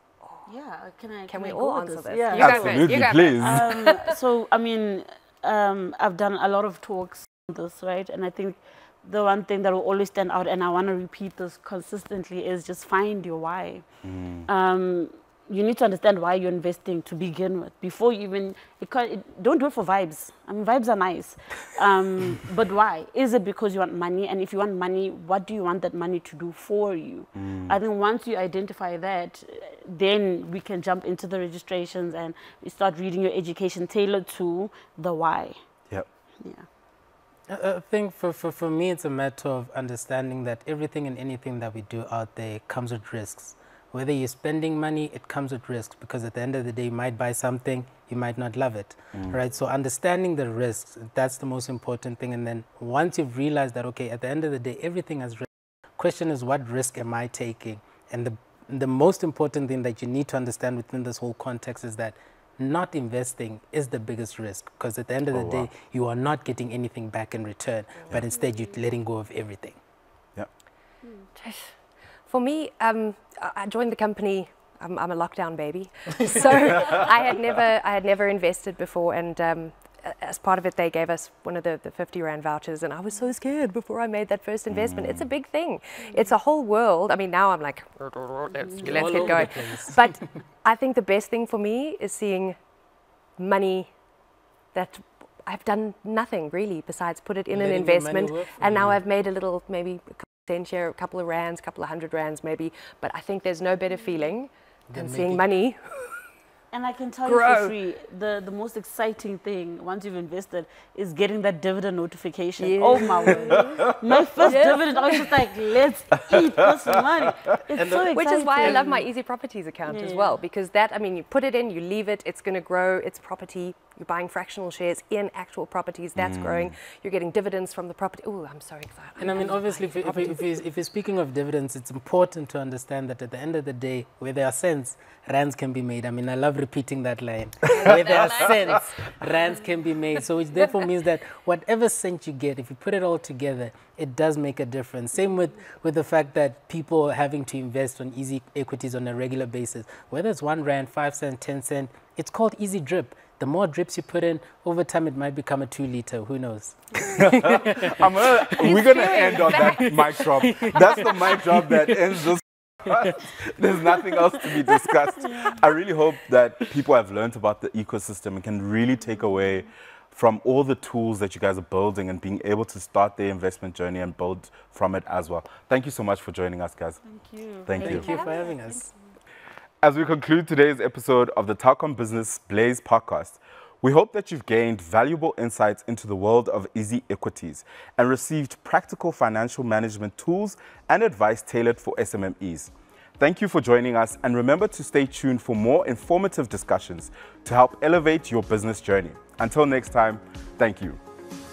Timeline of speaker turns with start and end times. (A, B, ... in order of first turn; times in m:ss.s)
0:00.2-0:00.5 A
0:00.5-0:13.9 B
0:01.3-0:04.0 A
0:02.4-0:03.7 C
0:14.0-0:14.5 C
0:14.5-0:35.6 B
0:27.4-0:27.8 C
0:37.5-1:09.8 D
1:05.3-1:05.7 C
1:11.0-1:11.3 B
1:11.4-1:11.7 A
1:12.3-1:32.6 A
1:24.7-1:25.3 C
1:28.6-1:29.5 B
1:28.8-1:30.0 D
1:33.4-1:33.9 A
1:34.7-1:46.2 A
1:37.5-1:39.0 D
1:44.9-1:45.5 D
1:46.7-1:59.1 B
1:47.2-1:47.8 A
1:52.6-1:53.9 A
1:54.4-1:55.3 A
1:57.8-1:58.9 D
1:58.1-2:10.5 A
1:59.8-2:00.4 B
2:06.2-2:06.8 C
2:09.2-2:37.9 D
2:17.7-2:18.5 A
2:37.2-2:57.0 C
2:38.6-2:39.9 A
2:45.2-2:45.6 B
2:57.0-2:58.5 B
2:57.6-2:58.1 C
2:57.8-2:58.9 D
2:57.9-2:58.8 A
2:59.8-3:21.0 C